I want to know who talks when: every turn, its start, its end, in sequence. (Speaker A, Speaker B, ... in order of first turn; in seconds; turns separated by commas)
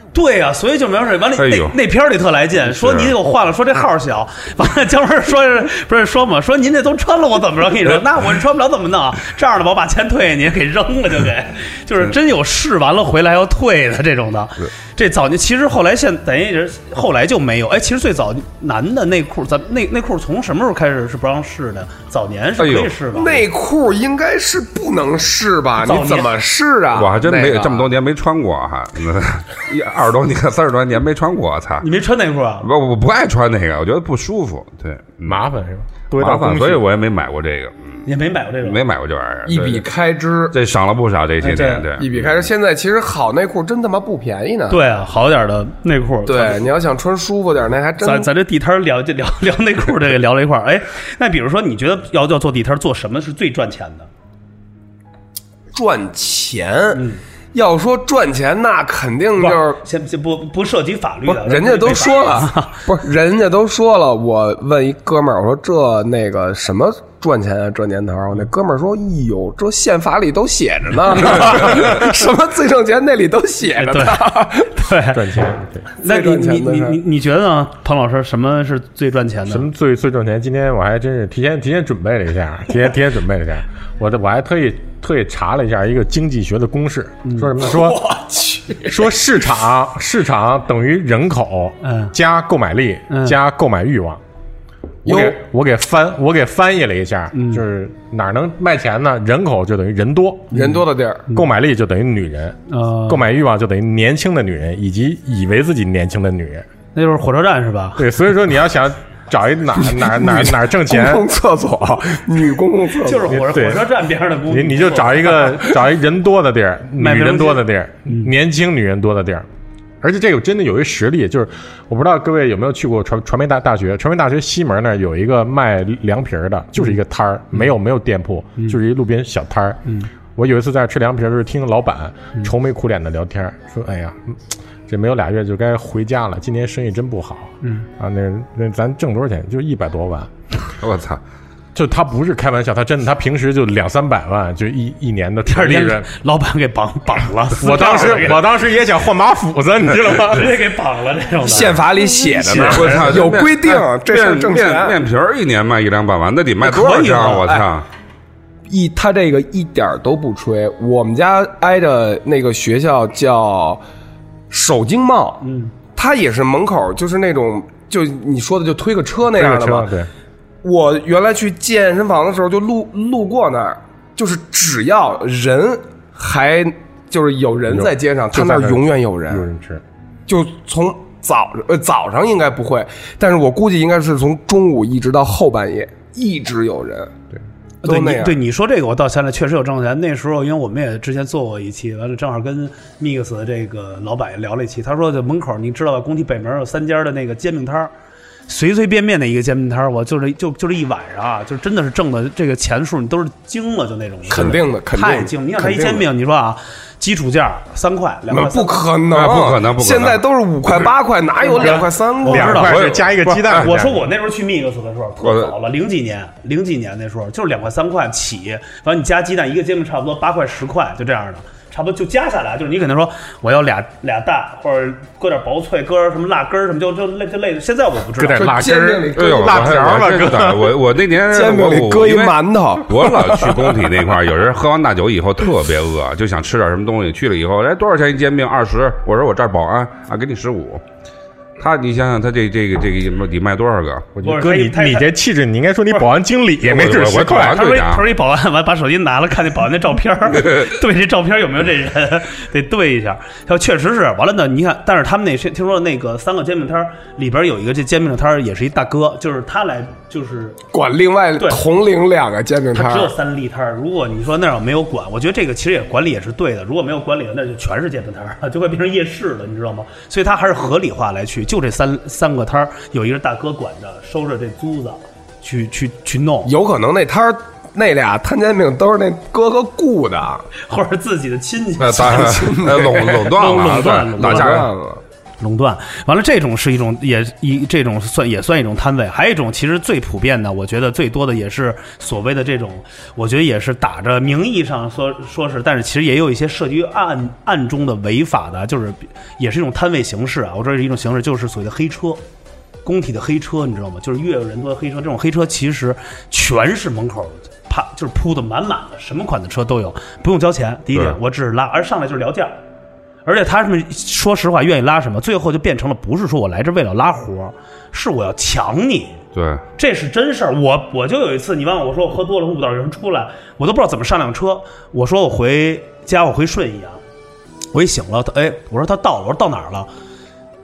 Speaker A: 0.1-23.4, Speaker B: 1.4-1.7, Speaker B: 2.7-3.1, Speaker B: 22.6-22.9, Speaker C: 23.1-27.9, Speaker A: 25.8-26.3, Speaker B: 26.9-31.9, Speaker A: 31.8-32.7, Speaker B: 32.6-35.4, Speaker D: 35.3-36.8, Speaker B: 36.1-38.1, Speaker A: 38.1-38.8, Speaker B: 38.6-39.9, Speaker C: 39.5-40.6, Speaker B: 40.5-42.5, Speaker A: 41.4-41.9, Speaker C: 42.0-44.8, Speaker A: 44.7-46.7, Speaker C: 46.3-48.3, Speaker A: 48.0-54.1, Speaker C: 55.7-59.8, Speaker A: 56.9-57.2, Speaker A: 59.4-62.9, Speaker C: 61.3-74.8, Speaker A: 73.8-75.3, Speaker D: 75.1-75.9, Speaker A: 76.0-79.7, Speaker C: 76.0-77.0, Speaker D: 79.5-88.0, Speaker A: 87.2-87.5, Speaker C: 87.6-89.1, Speaker D: 88.9-94.2, Speaker A: 91.8-92.1, Speaker A: 93.1-93.4, Speaker D: 95.0-100.6, Speaker C: 95.1-95.4, Speaker A: 97.3-97.6, Speaker A: 100.5-101.5, Speaker C: 100.5-101.3, Speaker D: 101.3-106.7, Speaker A: 102.7-103.3, Speaker A: 107.0-108.1, Speaker D: 108.0-111.3, Speaker C: 109.8-113.5, Speaker A: 113.0-115.6, Speaker D: 113.4-113.9, Speaker D: 114.5-119.5, Speaker A: 117.0-118.3, Speaker D: 120.0-129.8, Speaker D: 130.4-140.3, Speaker A: 137.6-137.9, Speaker B: 140.8-141.2, Speaker D: 141.8-146.1, Speaker A: 145.5-148.4, Speaker D: 147.6-150.6, Speaker A: 150.3-153.2, Speaker C: 151.4-155.0, Speaker B: 152.5-157.9, Speaker C: 156.7-157.7, Speaker A: 156.7-157.5, Speaker C: 158.7-163.8, Speaker C: 164.5-165.4, Speaker A: 165.4-165.7, Speaker C: 165.9-169.9, Speaker D: 169.3-170.1, Speaker C: 170.6-179.5, Speaker D: 177.7-179.8, Speaker C: 180.3-187.1, Speaker A: 187.8-197.9, Speaker C: 187.8-188.4, Speaker A: 198.5-208.8, Speaker C: 204.3-206.1, Speaker C: 208.3-212.8, Speaker B: 209.1-210.2, Speaker A: 211.4-228.6, Speaker D: 211.5-214.1, Speaker B: 212.6-213.7, Speaker B: 215.2-215.5, Speaker D: 228.2-230.8, Speaker C: 228.4-230.2, Speaker B: 229.2-240.8, Speaker C: 231.3-233.6, Speaker B: 241.6-244.1, Speaker D: 244.2-247.6, Speaker A: 244.2-245.1, Speaker B: 246.7-248.1, Speaker A: 247.3-260.6, Speaker C: 260.7-263.1, Speaker A: 261.4-261.6, Speaker A: 262.7-276.5, Speaker C: 276.4-280.5, Speaker A: 280.6-284.7, Speaker B: 281.8-284.7, Speaker C: 282.0-283.3, Speaker C: 284.2-285.0, Speaker A: 285.4-302.2, Speaker A: 302.9-312.6, Speaker A: 313.2-319.2, Speaker B: 319.4-319.6, Speaker A: 319.8-327.0, Speaker A: 327.7-329.9